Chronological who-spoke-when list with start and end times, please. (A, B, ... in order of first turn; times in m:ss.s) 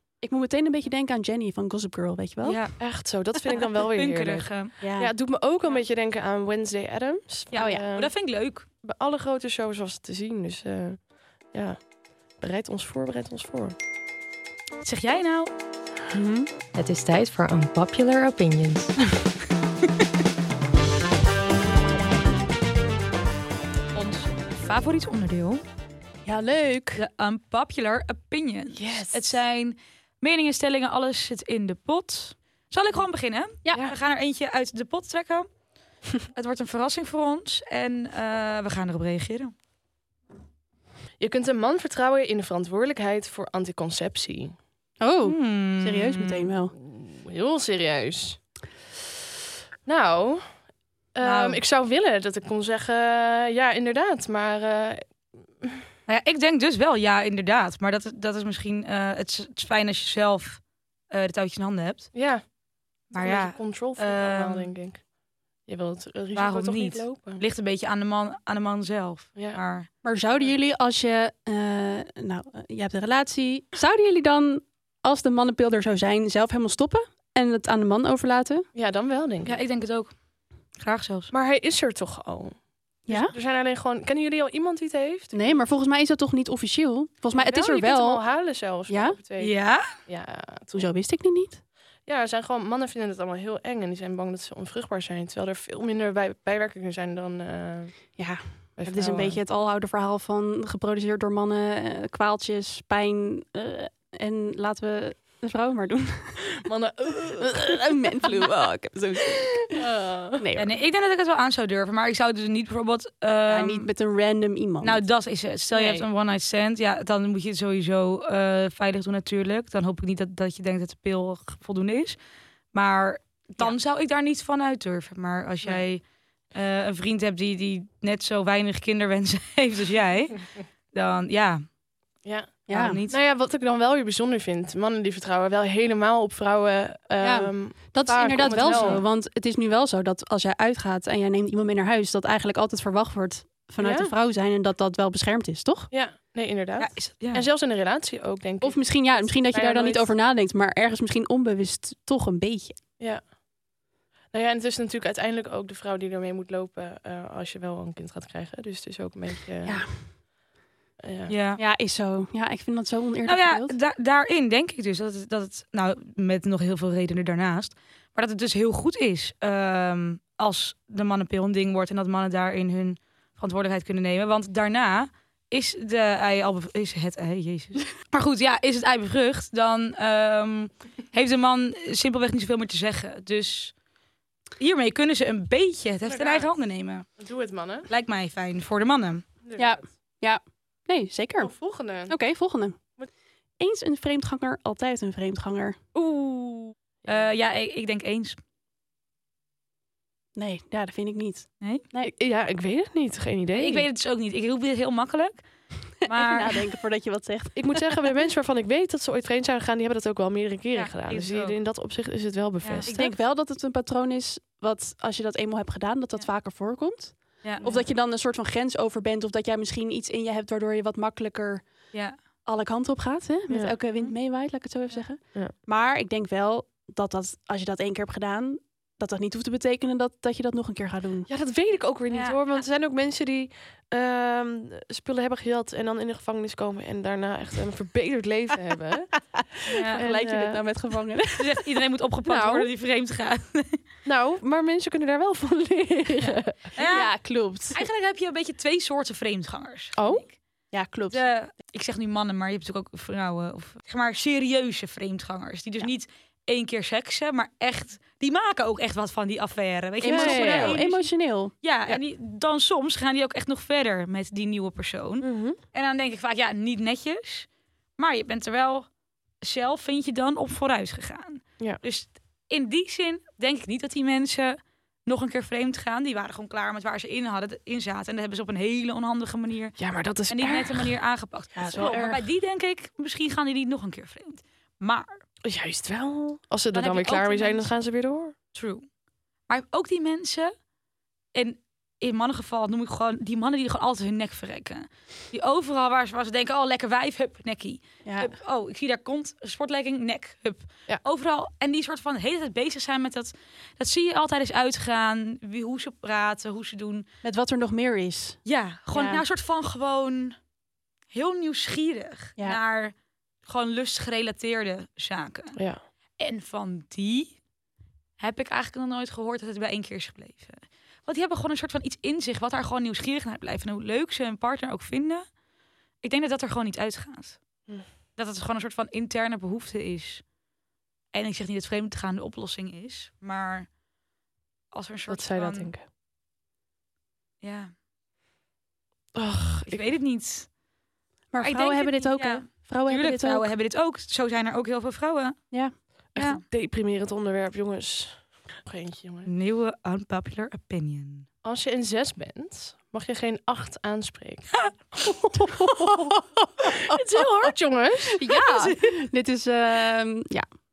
0:00.2-0:02.6 A
0:02.4-0:02.8 B
0:02.8-0:08.1 C
0:03.5-0:04.7 B
0:04.8-0:05.1 A
0:07.5-0:08.6 B
0:07.5-0:07.8 A
0:08.8-0:13.8 C
0:14.8-0:15.5 B
0:16.1-0:16.5 C
0:16.7-0:18.9 D
0:23.9-0:25.6 B
0:26.2-0:27.0 A
0:26.9-0:35.5 B
0:28.7-0:29.3 C
0:36.3-0:39.5 B
0:41.2-0:44.5 C
0:45.0-0:46.7 A
0:45.2-0:46.5 B
0:46.8-0:48.4 C
0:49.8-0:50.4 C
0:51.1-0:55.0 C
0:51.2-0:51.6 B
0:56.1-1:02.1 B
1:02.1-1:02.4 C
1:03.1-1:05.0 C
1:03.1-1:04.7 B
1:05.6-1:07.4 C
1:06.3-1:09.9 B
1:10.0-1:18.6 A
1:18.7-1:19.6 C
1:19.4-1:20.1 B
1:20.8-1:21.3 B
1:21.3-1:22.6 C
1:23.1-1:23.3 A
1:23.1-1:25.6 C
1:25.3-1:28.2 A
1:27.3-1:30.9 C
1:28.9-1:29.2 A
1:29.4-1:29.9 B
1:30.7-1:31.6 A
1:32.1-1:38.1 C
1:38.2-1:46.5 A
1:38.8-1:39.4 C
1:46.5-1:48.0 C
1:47.1-1:49.8 A
1:49.7-1:50.4 C
1:50.4-1:50.8 A
1:50.6-1:53.9 B
1:53.5-1:55.0 A
1:54.8-2:02.2 B
1:55.7-1:56.0 C
2:02.7-2:10.4 B
2:10.9-2:11.6 B
2:12.2-2:19.0 C
2:12.7-2:13.0 A
2:12.7-2:13.2 B
2:17.2-2:25.9 A
2:23.8-2:24.1 C
2:25.9-2:30.1 C
2:26.8-2:27.5 B
2:28.6-2:32.8 A
2:34.3-2:39.8 C
2:39.6-2:39.9 A
2:41.0-2:41.3 C
2:41.3-2:41.6 B
2:41.6-2:43.8 A
2:43.2-3:03.7 B
3:04.6-3:07.1 B
3:06.0-3:06.5 C
3:07.2-3:07.9 C
3:07.9-3:09.2 B
3:09.4-3:09.8 C
3:09.6-3:12.8 A
3:11.4-3:12.1 C
3:13.6-3:15.8 A
3:15.9-3:17.3 C
3:17.1-3:18.4 B
3:20.4-3:22.1 A
3:22.2-3:23.9 C
3:23.6-3:25.4 B
3:26.0-3:26.6 B
3:26.0-3:27.9 A
3:27.5-3:33.1 C
3:30.7-3:31.6 B
3:32.6-3:33.0 B
3:32.9-3:41.7 A
3:37.6-3:37.9 C
3:42.4-3:51.3 A
3:43.5-3:43.7 C
3:51.3-3:59.2 C
3:52.1-3:52.4 B
3:59.4-4:01.6 A
3:59.7-4:00.0 B
4:00.0-4:00.6 C
4:01.4-4:03.8 B
4:02.2-4:02.7 C
4:04.0-4:06.7 C
4:06.7-4:07.2 B
4:06.8-4:07.8 A
4:07.7-4:10.4 B
4:09.9-4:10.3 C
4:10.7-4:11.3 A
4:11.1-4:28.9 B
4:20.0-4:21.5 A
4:20.0-4:20.8 C
4:25.2-4:25.6 C
4:29.4-4:45.2 B
4:39.8-4:40.9 C
4:41.6-4:42.0 A
4:41.7-4:42.2 C
4:45.4-4:48.3 C
4:46.7-4:47.7 B
4:48.5-4:48.8 B
4:49.5-4:50.5 B
4:51.3-5:07.1 B
4:58.0-4:58.3 A
5:07.2-5:09.2 A
5:08.4-5:10.4 B
5:11.1-5:12.9 B
5:13.4-5:15.6 B
5:15.6-5:15.8 C
5:16.2-5:17.4 B
5:18.2-5:25.3 B
5:26.0-5:27.4 B
5:28.2-5:30.2 B
5:31.1-5:33.7 B
5:34.7-5:35.7 B
5:35.1-5:35.8 C
5:37.4-5:37.7 B
5:39.1-5:40.0 C
5:39.6-5:40.5 B
5:41.3-5:43.5 A
5:41.4-5:45.5 B
5:45.5-5:45.8 A
5:46.1-5:46.4 B
5:46.1-5:49.3 C
5:49.2-5:51.3 B
5:51.4-5:56.1 C
5:55.6-5:56.2 A
5:56.7-5:58.2 C
5:56.9-5:57.2 A
5:58.1-6:00.4 A
5:58.3-5:58.9 B